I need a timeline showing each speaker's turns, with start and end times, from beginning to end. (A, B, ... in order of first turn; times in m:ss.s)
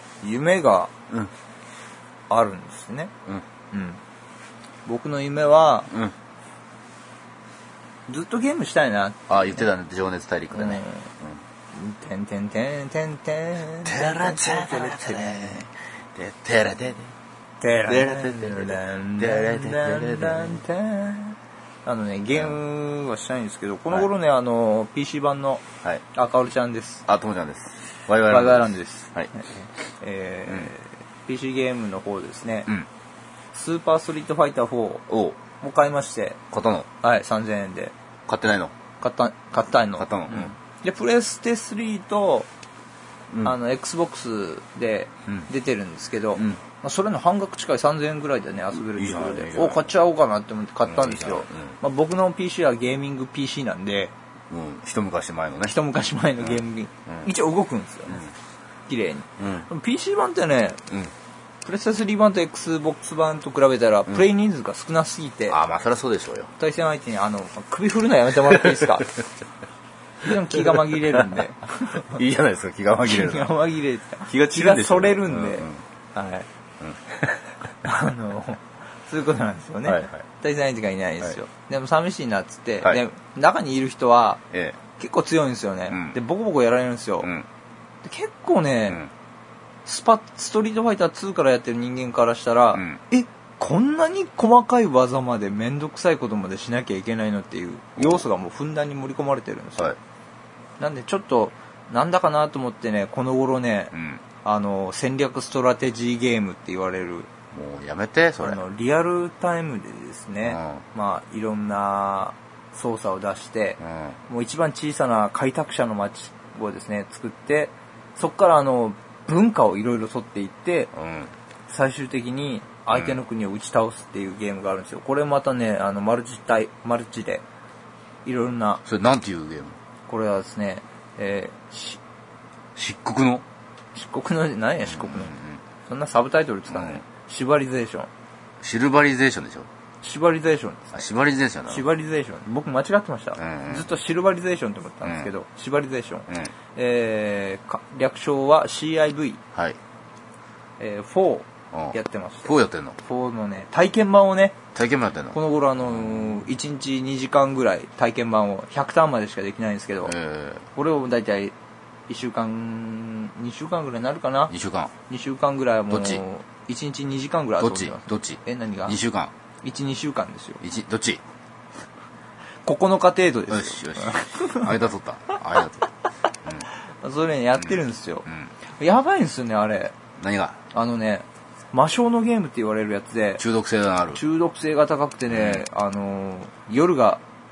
0:00.2-0:00.9 A
0:02.3-0:03.1 A
0:03.7-0:04.0 A
0:04.8-0:05.9 A
0:08.1-0:09.6 A
0:09.3-0:11.4 B
0:10.5-0:11.1 A
0:11.7-0:15.7 A
0:13.8-0:17.1 B
0:17.6-0:25.6 A
0:17.9-0:20.6 B
0:22.3-0:22.6 B
0:26.1-0:27.0 A
0:27.1-0:29.3 B
0:28.3-0:32.7 A
0:33.5-0:35.0 A
0:35.1-0:35.4 B
0:35.6-0:36.4 A
0:36.5-0:36.9 B
0:37.0-0:37.9 A
0:38.3-0:38.7 B
0:39.0-0:42.5 A
0:40.0-0:40.5 B
0:43.3-0:43.6 B
0:43.4-0:54.1 A
0:46.4-0:46.6 B
0:48.7-0:49.9 B
0:50.8-0:51.8 B
0:54.5-0:55.8 B
0:55.6-0:58.3 A
0:56.4-0:57.3 B
0:58.9-1:00.8 A
0:59.4-0:59.7 B
1:01.6-1:05.6 A
1:05.5-1:06.5 B
1:06.6-1:09.1 A
1:08.5-1:09.1 B
1:10.2-1:12.2 A
1:10.2-1:13.6 B
1:13.1-1:16.5 A
1:14.2-1:15.8 B
1:16.8-1:17.4 B
1:17.8-1:24.4 A
1:19.9-1:20.2 B
1:24.5-1:24.8 B
1:25.0-1:27.3 A
1:25.9-1:26.2 B
1:27.2-1:27.5 B
1:28.0-1:29.0 A
1:29.8-1:40.0 A
1:32.7-1:33.0 B
1:38.0-1:38.2 B
1:40.8-1:47.3 A
1:43.9-1:44.2 B
1:47.5-1:48.6 B
1:48.4-2:00.9 A
1:50.4-1:50.8 B
1:53.8-1:54.2 B
2:00.9-2:01.3 B
2:01.7-2:07.4 A
2:02.9-2:03.2 B
2:08.2-2:08.8 A
2:08.8-2:09.8 B
2:10.1-2:12.0 A
2:12.8-2:13.4 B
2:13.9-2:18.1 A
2:14.8-2:15.6 B
2:16.7-2:17.0 B
2:18.6-2:19.7 B
2:20.0-2:21.0 A
2:20.9-2:21.9 B
2:21.7-2:29.4 A
2:23.4-2:23.9 B
2:25.0-2:25.3 B
2:30.8-2:34.6 A
2:31.7-2:33.0 B
2:34.7-2:36.5 B
2:35.3-2:40.1 A
2:40.0-2:40.7 B
2:40.7-2:41.5 A
2:42.1-2:44.5 A
2:44.5-2:44.9 B
2:45.1-2:49.0 A
2:45.9-2:46.2 B
2:47.6-2:49.3 B
2:49.6-2:50.6 A
2:50.6-2:51.2 B
2:52.6-2:54.7 A
2:53.5-2:55.9 B
2:56.6-2:58.2 A
2:57.6-2:58.5 B
2:58.8-2:59.9 A
3:00.2-3:00.6 B
3:00.7-3:03.4 A
3:03.4-3:04.2 B
3:04.1-3:07.2 A
3:05.3-3:05.6 B